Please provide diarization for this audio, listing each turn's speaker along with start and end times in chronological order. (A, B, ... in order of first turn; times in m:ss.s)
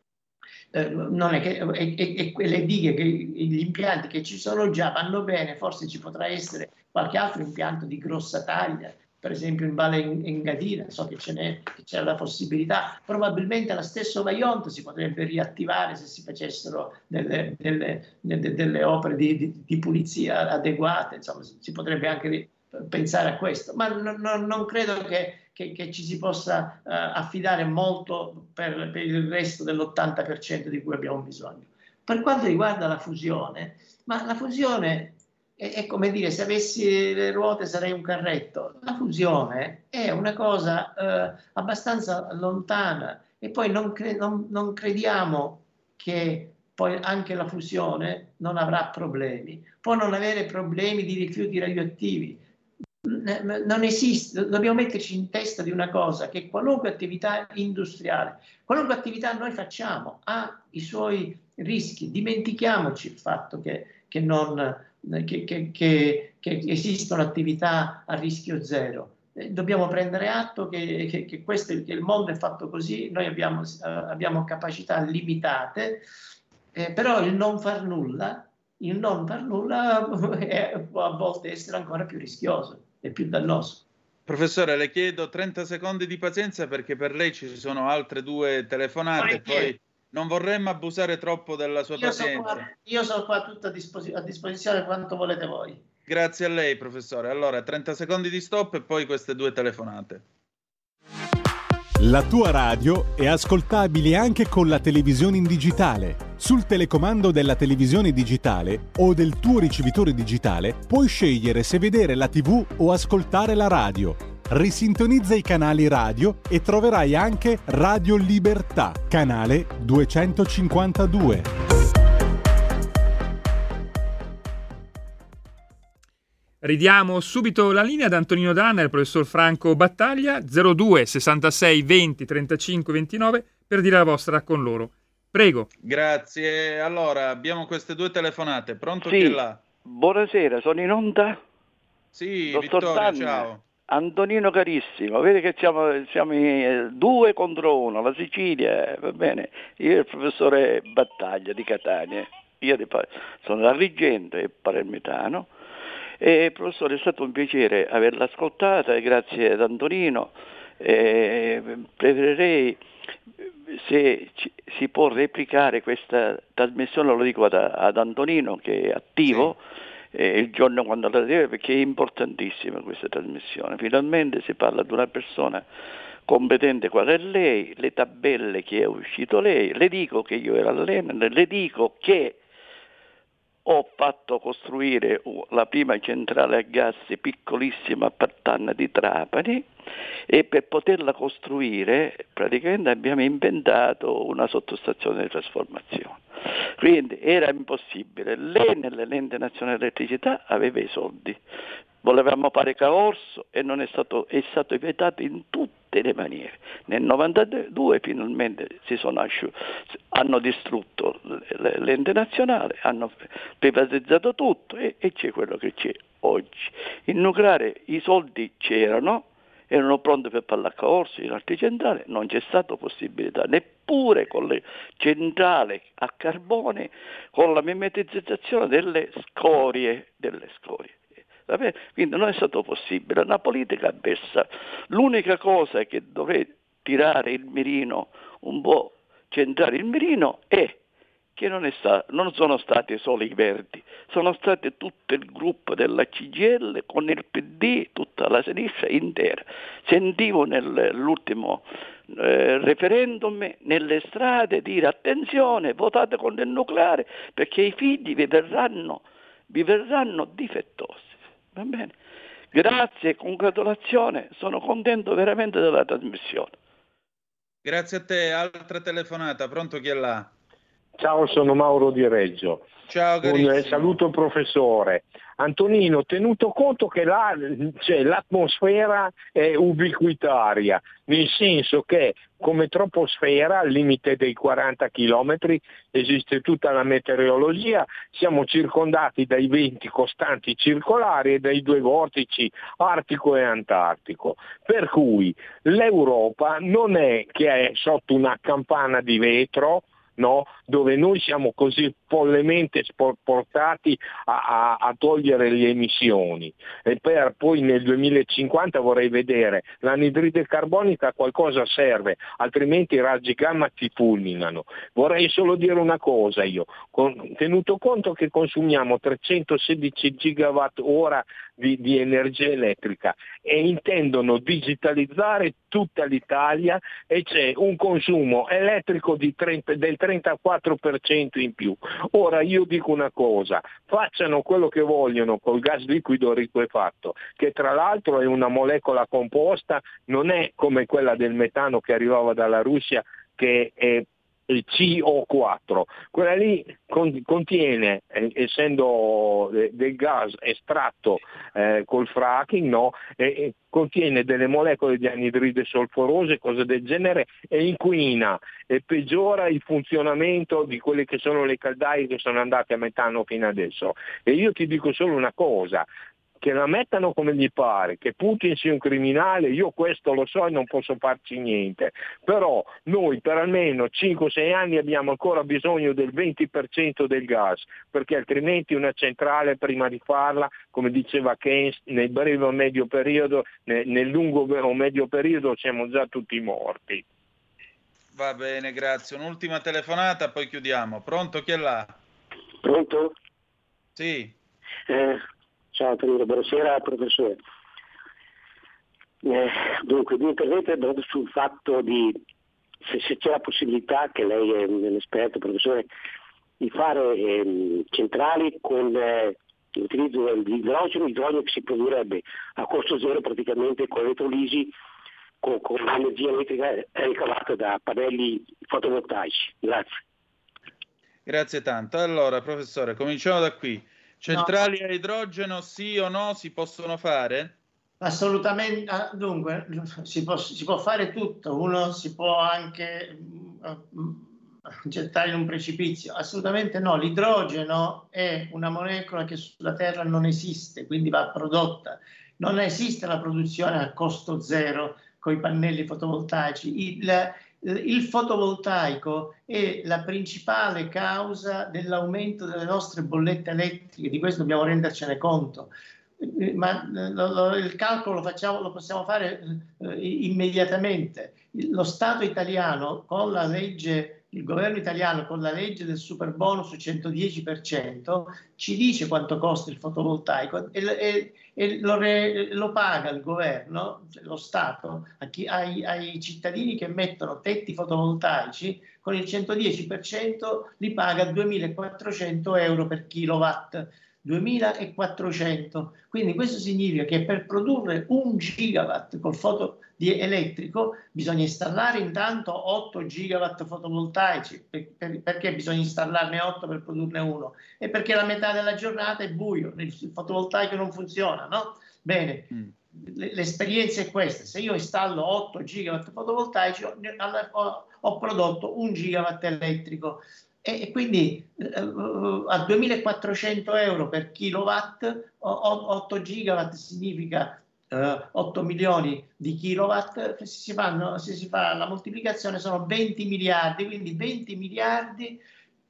0:00.7-0:52.4 A
0:53.0-1:16.1 A
1:16.7-1:23.8 A
1:24.3-1:32.6 B
1:29.2-1:29.7 A
1:31.9-1:35.8 A
1:36.1-1:40.2 B
1:42.0-2:01.5 C
2:06.6-2:15.7 D
2:15.8-2:19.6 B
2:19.0-2:21.4 E
2:22.2-2:23.6 B
2:22.5-2:35.5 E
2:36.2-2:42.8 E
2:43.7-2:49.6 E
2:50.1-2:55.7 E
2:56.3-3:02.4 E
3:03.7-3:09.7 E
3:10.3-3:16.2 E
3:16.8-3:21.4 E
3:22.0-4:00.8 E
4:01.4-4:21.9 E
4:22.5-4:26.6 E
4:27.6-4:30.3 B
4:31.0-4:32.7 F
4:32.9-4:34.0 B
4:33.2-6:05.9 F
6:06.4-6:27.0 F
6:28.2-6:32.0 B
6:32.6-6:33.2 G
6:34.0-6:34.4 B
6:34.9-6:35.2 G
6:35.7-6:37.4 G
6:39.2-6:42.2 G
6:42.9-6:45.9 G
6:46.6-6:54.7 G
6:55.4-6:59.9 G
7:01.3-7:07.6 B
7:04.3-7:04.7 A
7:08.0-8:45.4 A